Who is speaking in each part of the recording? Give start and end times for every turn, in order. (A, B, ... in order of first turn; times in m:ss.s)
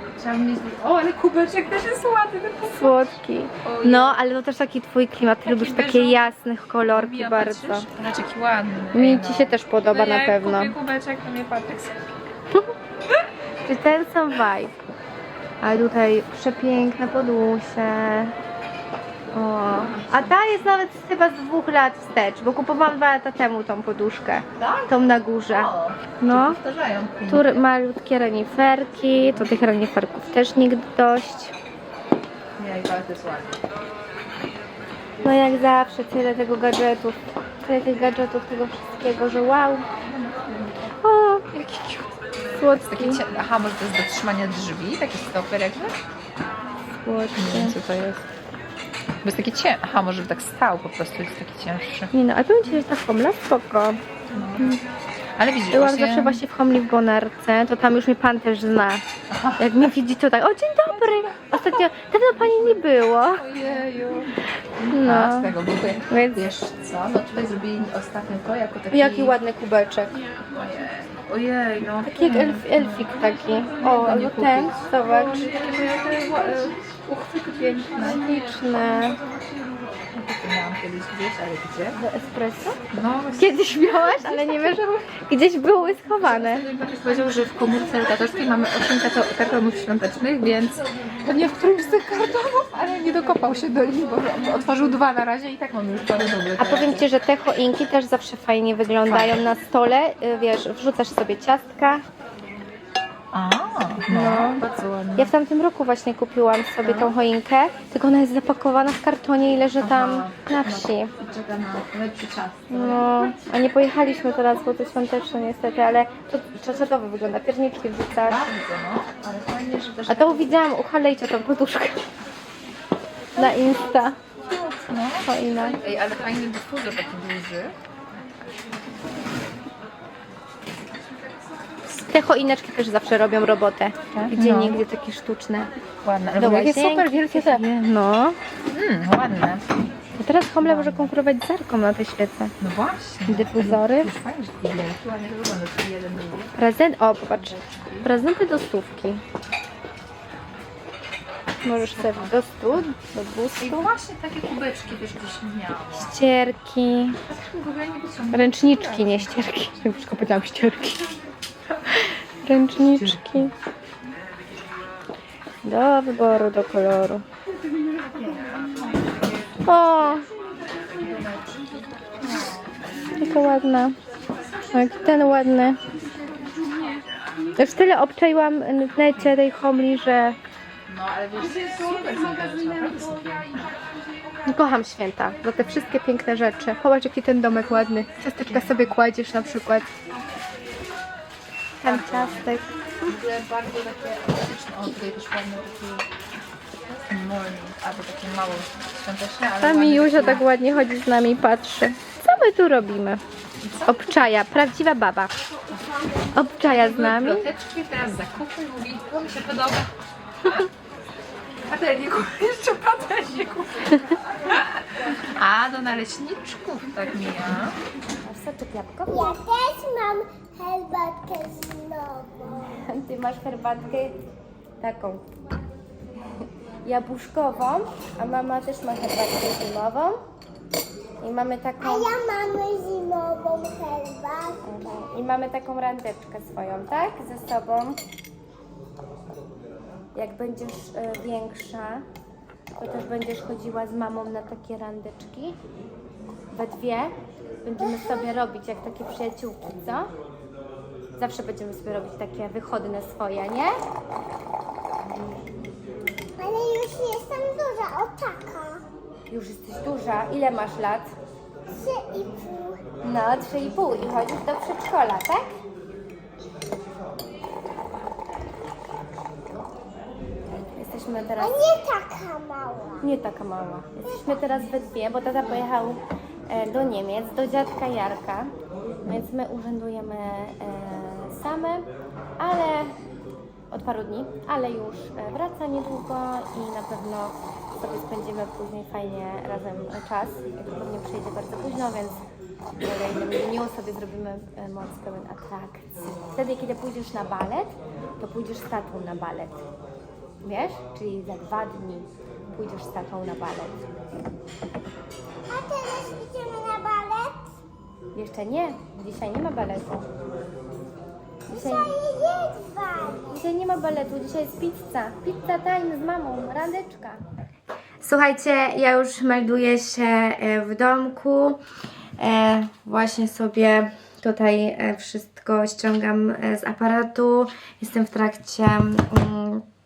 0:00.2-0:03.1 A
0:02.7-0:07.9 B
0:03.6-0:04.2 A
0:05.4-0:06.3 A
0:06.9-0:12.2 A
0:08.9-0:10.7 B
0:13.6-0:14.7 B
0:15.6-0:18.3 B
0:19.3-0:26.6 B
0:19.8-0:20.6 A
0:24.6-0:24.9 A
0:25.5-0:27.6 A
0:27.3-0:31.5 B
0:32.6-0:33.5 A
0:35.2-0:39.8 B
0:40.0-0:40.9 A
0:41.0-0:41.5 B
0:41.5-0:42.0 A
0:42.5-0:43.2 B
0:42.7-0:46.0 A
0:47.0-0:47.8 B
0:47.4-0:48.2 A
0:49.2-0:52.1 A
0:52.1-0:54.0 B
0:54.3-0:54.7 A
0:55.4-0:56.4 A
0:55.7-0:59.0 B
0:59.3-0:59.9 A
0:59.6-1:03.4 B
1:00.9-1:02.8 A
1:03.3-1:09.4 A
1:04.9-1:05.5 B
1:06.0-1:06.5 B
1:08.9-1:10.2 B
1:10.5-1:18.3 A
1:12.0-1:15.5 B
1:18.0-1:19.2 B
1:20.1-1:22.0 A
1:22.0-1:22.8 B
1:22.9-1:25.0 A
1:23.4-1:26.7 B
1:26.2-1:37.0 A
1:36.6-1:42.0 B
1:39.1-1:39.4 A
1:43.3-1:45.3 A
1:44.1-1:44.6 B
1:45.2-1:51.1 B
1:46.8-1:47.1 A
1:49.8-1:53.2 A
1:52.7-1:58.5 B
1:58.2-2:00.6 A
2:00.1-2:02.1 B
2:03.4-2:04.2 B
2:03.4-2:03.8 A
2:04.4-2:07.7 A
2:05.2-2:05.8 B
2:12.1-2:15.7 B
2:14.1-2:14.8 A
2:16.0-2:17.6 A
2:16.4-2:18.4 B
2:18.7-2:19.7 A
2:20.2-2:22.5 B
2:20.6-2:21.1 A
2:22.6-2:26.6 A
2:23.2-2:24.1 B
2:26.5-2:29.2 B
2:27.3-2:28.1 A
2:31.6-2:33.9 B
2:31.7-2:32.3 A
2:33.6-2:36.2 A
2:35.9-2:37.2 B
2:37.3-2:39.4 A
2:38.3-2:41.0 B
2:42.0-2:43.5 B
2:42.9-2:43.4 A
2:45.6-2:47.2 B
2:48.1-2:49.6 A
2:49.6-2:50.2 B
2:50.9-2:52.8 A
2:53.2-2:54.0 B
2:54.4-2:55.4 A
2:54.7-2:55.8 B
2:57.6-3:00.4 B
3:00.9-3:03.7 A
3:04.5-3:09.9 B
3:08.4-3:08.9 A
3:11.8-3:13.1 B
3:11.8-3:12.5 A
3:13.0-3:16.0 A
3:17.1-3:20.4 A
3:19.4-3:23.2 B
3:23.6-3:24.3 A
3:23.8-3:25.3 B
3:26.3-3:27.5 B
3:26.6-3:29.9 A
3:30.4-3:30.7 A
3:31.7-3:37.8 A
3:38.2-3:39.4 B
3:39.1-3:42.7 C
3:42.6-3:44.2 B
3:44.8-3:45.3 B
3:46.8-3:50.2 B
3:51.2-3:52.2 B
3:51.8-3:54.6 C
3:54.6-3:58.0 B
4:00.1-4:02.0 B
4:02.8-4:05.6 B
4:06.5-4:07.1 B
4:07.6-4:10.1 B
4:11.2-4:13.7 B
4:16.4-4:18.8 C
4:19.3-4:21.1 B
4:21.7-4:22.9 C
4:23.0-4:25.5 B
4:30.8-4:31.6 B
4:31.4-4:33.0 C
4:33.0-4:38.5 B
4:34.0-4:34.4 C
4:39.0-4:42.9 B
4:43.7-4:52.2 B
4:52.8-4:59.6 B
5:00.4-5:03.8 B
5:05.5-5:07.5 C
5:08.1-5:10.0 B
5:11.5-5:13.3 C
5:11.5-5:11.9 B
5:13.3-5:17.2 B
5:18.0-5:21.6 B
5:22.2-5:29.6 B